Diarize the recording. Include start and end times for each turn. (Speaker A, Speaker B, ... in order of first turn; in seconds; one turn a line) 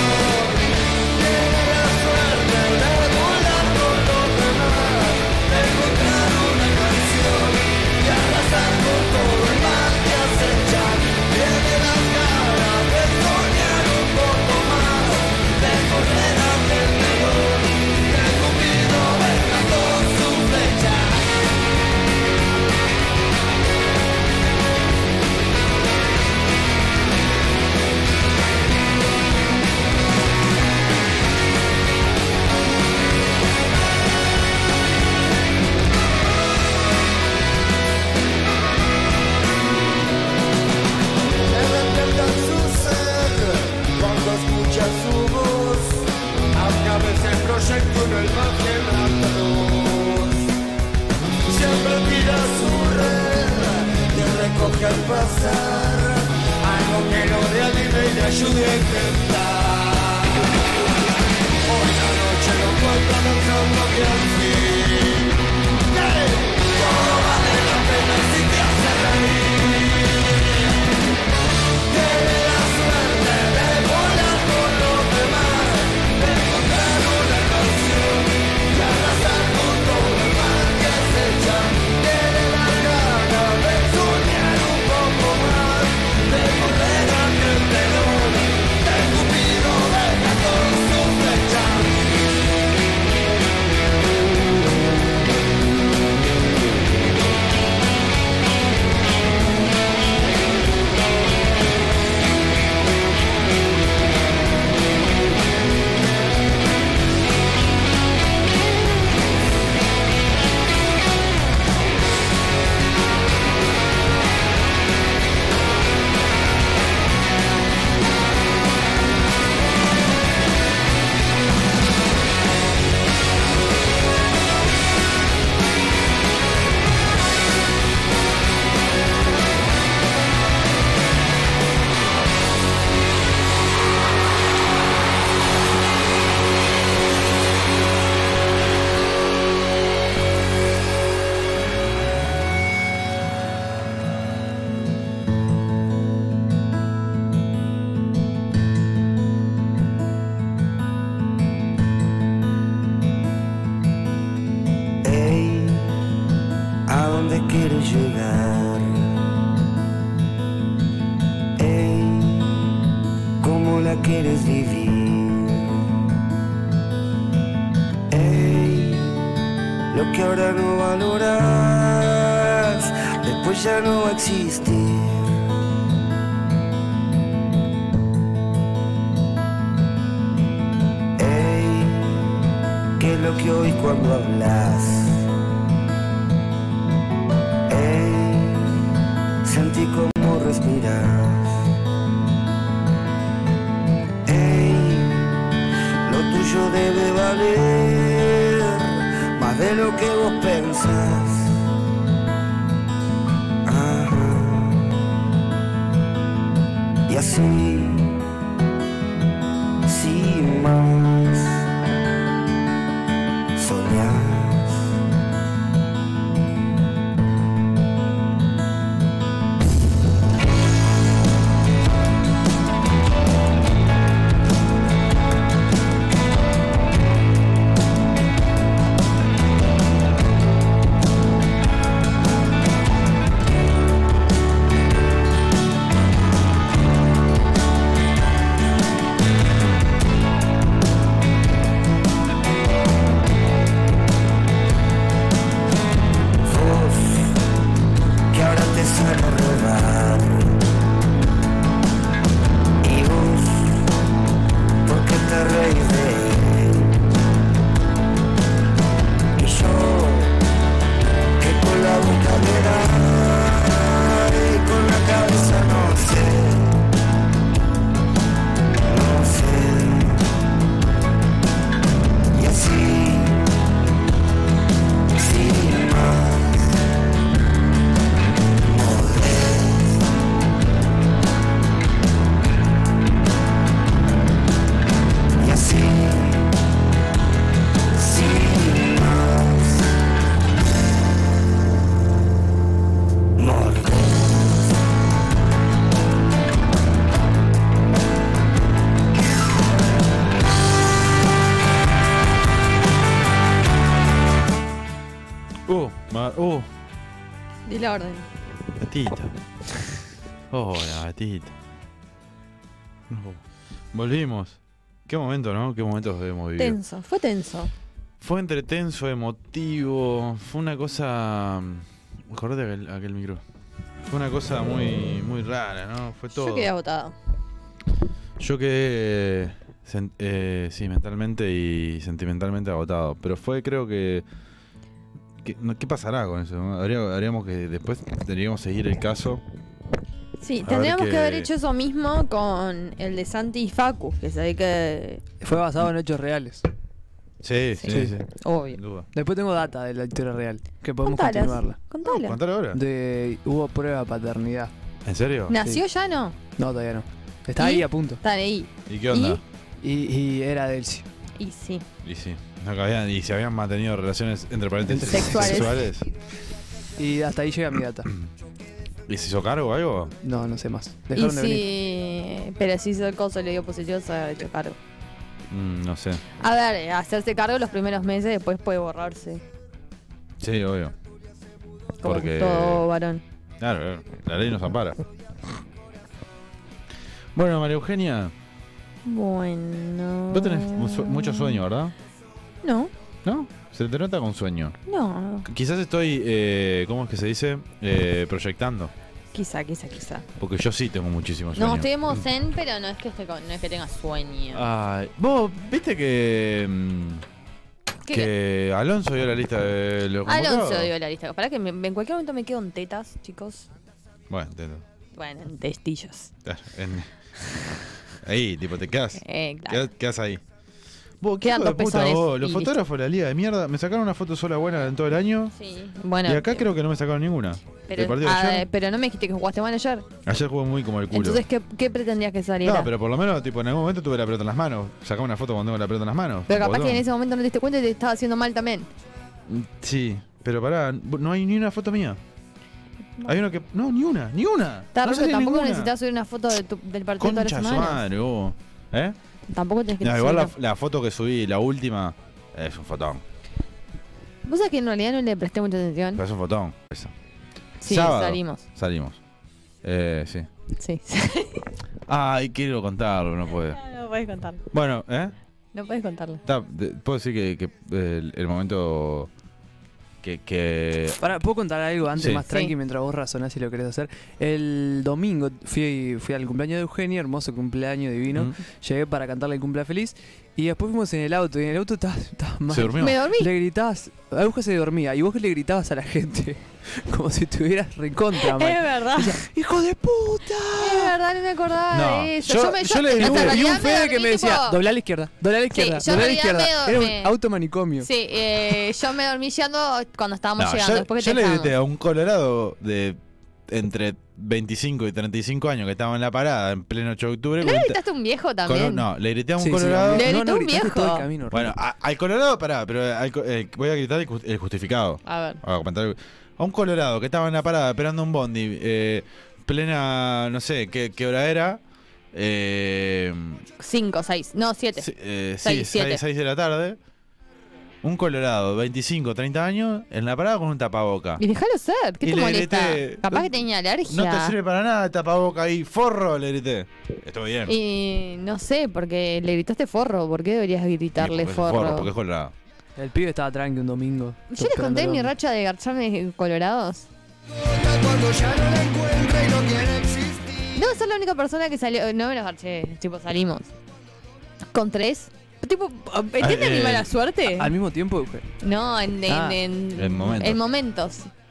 Speaker A: 1.2-7.2
Speaker A: 8.0-8.3
Speaker A: 11.2-13.2
Speaker A: 13.8-14.6
Speaker A: 41.5-45.9
Speaker A: 46.5-50.4
Speaker A: 51.5-60.4
Speaker A: 61.7-65.3
Speaker A: 65.9-69.6
Speaker A: 71.9-78.0
Speaker B: 74.7-77.1
Speaker A: 78.8-82.2
Speaker B: 78.9-79.9
Speaker B: 80.6-83.2
Speaker A: 82.7-85.2
Speaker B: 84.8-85.7
Speaker A: 86.1-88.1
Speaker A: 88.8-91.9
Speaker B: 89.8-90.8
Speaker B: 155.0-155.9
Speaker B: 156.9-159.1
Speaker B: 161.6-162.7
Speaker B: 163.4-165.8
Speaker B: 168.1-169.2
Speaker B: 169.9-175.3
Speaker B: 181.2-182.3
Speaker B: 183.0-185.2
Speaker B: 187.7-188.8
Speaker B: 189.4-191.6
Speaker B: 194.3-195.4
Speaker B: 196.1-201.5
Speaker B: 203.7-204.9
Speaker B: 207.1-208.2
Speaker B: 209.9-211.6
Speaker B: 213.6-214.8
Speaker B: 246.4-247.4
Speaker B: 248.3-250.6
Speaker B: 252.8-253.9
Speaker B: 254.8-256.9
Speaker B: 259.4-260.4
Speaker B: 261.4-266.8
Speaker B: 268.9-270.3
Speaker B: 272.3-273.4
Speaker B: 275.1-276.7
Speaker B: 278.6-280.0
Speaker B: 285.4-286.5
Speaker B: 287.9-289.9
Speaker B: 293.4-294.7
Speaker C: 305.7-306.7
Speaker D: 307.7-308.3
Speaker C: 308.8-309.3
Speaker C: 310.5-311.5
Speaker C: 313.1-313.4
Speaker C: 313.9-316.8
Speaker D: 316.6-317.7
Speaker C: 318.2-323.4
Speaker C: 324.1-326.7
Speaker D: 326.3-327.1
Speaker C: 328.4-334.2
Speaker C: 335.4-339.4
Speaker D: 340.4-345.2
Speaker C: 340.6-341.5
Speaker E: 345.4-346.6
Speaker C: 347.4-348.2
Speaker D: 347.8-348.8
Speaker E: 347.9-348.2
Speaker C: 348.7-349.1
Speaker E: 349.1-351.8
Speaker D: 351.0-352.4
Speaker C: 352.1-352.8
Speaker E: 352.7-354.7
Speaker C: 355.1-355.6
Speaker D: 355.5-356.4
Speaker E: 356.6-358.2
Speaker D: 357.6-359.4
Speaker C: 358.9-359.4
Speaker E: 359.8-361.1
Speaker D: 361.4-361.9
Speaker C: 362.0-366.1
Speaker E: 364.9-365.7
Speaker D: 365.1-365.8
Speaker E: 367.0-368.1
Speaker C: 369.1-370.1
Speaker E: 370.2-371.7
Speaker D: 371.1-374.8
Speaker C: 375.5-376.2
Speaker D: 376.4-379.4
Speaker C: 380.4-380.9
Speaker D: 382.0-383.2
Speaker C: 382.0-382.9
Speaker C: 383.6-385.0
Speaker C: 387.4-388.3
Speaker D: 389.1-391.6
Speaker C: 390.3-391.9
Speaker D: 392.6-392.9
Speaker C: 393.2-394.8
Speaker D: 394.9-395.5
Speaker C: 395.4-398.9
Speaker D: 399.3-400.3
Speaker C: 400.4-402.2
Speaker D: 401.6-404.6
Speaker C: 404.5-407.2
Speaker D: 408.1-408.3
Speaker C: 408.1-410.9
Speaker D: 410.3-413.7
Speaker C: 414.3-414.8
Speaker D: 415.1-416.3
Speaker C: 416.4-417.1
Speaker C: 418.2-420.4
Speaker D: 419.2-419.9
Speaker C: 421.2-425.5
Speaker D: 421.4-422.8
Speaker D: 425.6-426.7
Speaker C: 426.2-428.7
Speaker D: 427.9-430.1
Speaker C: 430.3-431.4
Speaker D: 431.1-432.9
Speaker C: 432.6-437.1
Speaker D: 436.5-438.9
Speaker C: 439.5-442.2
Speaker C: 443.2-445.9
Speaker D: 444.9-448.0
Speaker C: 447.2-449.2
Speaker D: 449.5-450.5
Speaker C: 450.0-453.2
Speaker D: 454.4-456.2
Speaker C: 456.1-457.1
Speaker D: 457.8-458.6
Speaker C: 457.8-459.2
Speaker C: 459.8-460.5
Speaker D: 460.8-461.6
Speaker C: 462.1-463.8
Speaker D: 463.7-464.6
Speaker C: 464.7-465.3
Speaker D: 465.7-466.4
Speaker C: 466.5-469.3
Speaker C: 470.2-471.2
Speaker E: 471.2-491.1
Speaker C: 472.2-472.4
Speaker D: 472.5-472.7
Speaker C: 478.3-478.6
Speaker C: 482.7-483.2
Speaker D: 483.0-483.5
Speaker D: 488.4-489.4
Speaker D: 490.8-494.8
Speaker C: 491.9-493.8
Speaker E: 493.2-498.1
Speaker D: 495.7-497.4
Speaker D: 498.0-501.7
Speaker C: 500.6-508.0
Speaker D: 507.6-509.1
Speaker C: 508.6-510.3
Speaker E: 509.6-511.7
Speaker D: 510.1-511.3
Speaker C: 511.5-521.8
Speaker D: 515.2-515.6
Speaker C: 522.3-523.6
Speaker D: 523.8-525.1
Speaker C: 525.0-527.0
Speaker D: 525.6-526.2
Speaker C: 528.0-531.4
Speaker D: 531.4-534.6
Speaker C: 532.2-537.8
Speaker D: 537.7-542.1
Speaker C: 541.2-542.5
Speaker E: 543.0-545.3
Speaker D: 544.5-547.1
Speaker B: 548.0-550.3
Speaker D: 550.8-553.7
Speaker D: 554.7-557.7
Speaker C: 556.4-557.1
Speaker E: 557.5-558.5
Speaker D: 558.6-561.3
Speaker E: 559.3-559.6
Speaker C: 559.9-560.6